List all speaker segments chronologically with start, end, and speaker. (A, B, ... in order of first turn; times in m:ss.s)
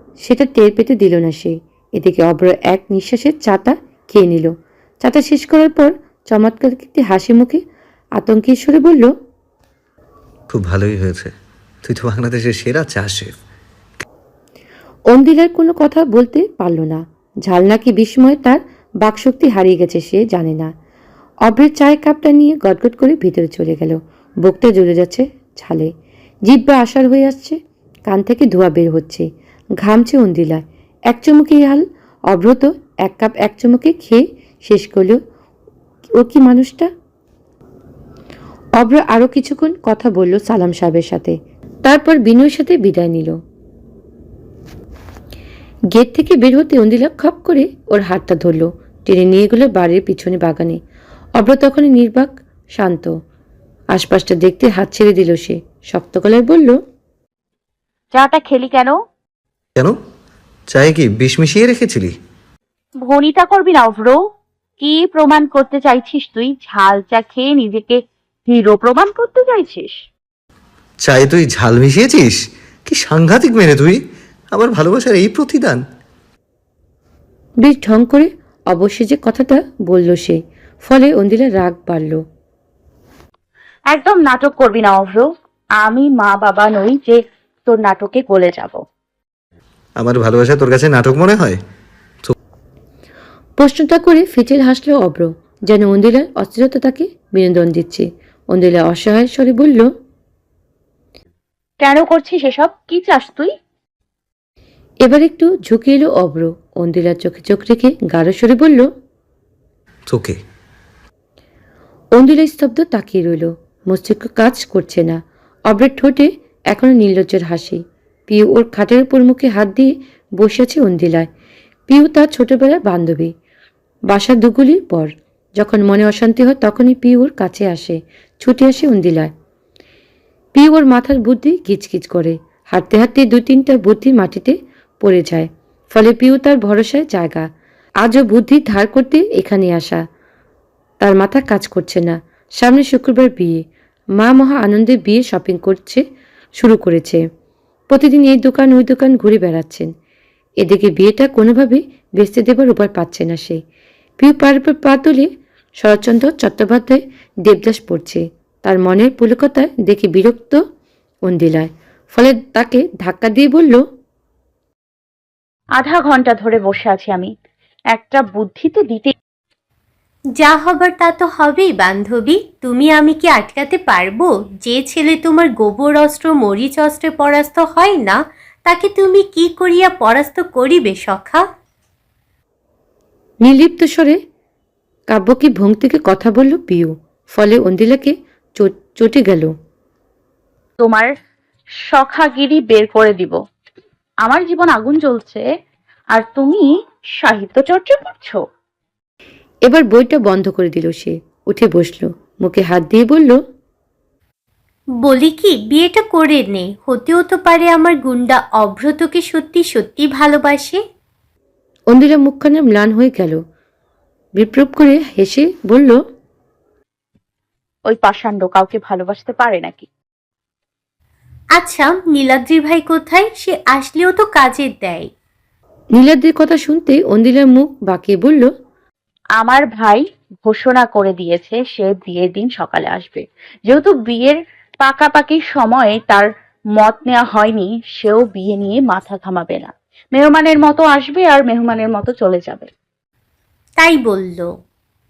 0:00.2-0:07.6 A
0:08.2-0:09.1 A
0:10.5-0:11.3 B
0:11.8-0:13.3 B
0:15.1-0:20.7 A
0:21.5-0:25.9 A
0:26.5-0:29.3 A
0:29.8-0:35.2 A
0:36.2-0:36.9 A
0:38.8-0:43.4 A
0:45.9-0:50.8 A
0:51.4-0:53.1 A
0:53.9-0:56.8 A
0:58.1-0:59.0 C
1:00.7-1:02.1 B
1:03.0-1:04.2 C
1:04.8-1:10.0 C
1:11.0-1:14.0 B
1:14.5-1:15.8 B
1:17.6-1:22.2 A
1:23.9-1:28.8 C
1:30.0-1:31.6 B
1:33.6-1:39.9 A
1:41.8-1:43.5 C
1:45.0-1:48.9 A
1:50.1-1:50.4 B
1:52.2-2:01.3 A
2:01.9-2:03.3 A
2:04.1-2:09.3 A
2:10.6-2:17.5 A
2:18.0-2:20.0 A
2:21.0-2:23.6 A
2:24.2-2:26.0 A
2:26.6-2:27.2 A
2:27.9-2:29.9 A
2:30.6-2:33.6 A
2:34.2-2:35.3 A
2:35.8-2:40.6 A
2:41.3-2:43.8 A
2:45.8-2:47.3 C
2:47.9-2:49.1 C
2:50.4-3:01.4 D
3:03.4-3:04.2 A
3:05.1-3:09.5 A
3:10.8-3:11.1 C
3:11.9-3:13.4 C
3:14.2-3:15.5 C
3:16.1-3:18.4 C
3:19.7-3:23.4 A
3:25.0-3:30.8 D
3:31.9-3:33.4 A
3:34.4-3:36.0 A
3:37.9-3:39.9 C
3:41.6-3:45.1 D
3:46.0-3:48.5 A
3:49.4-4:02.7 C
4:03.8-4:04.5 D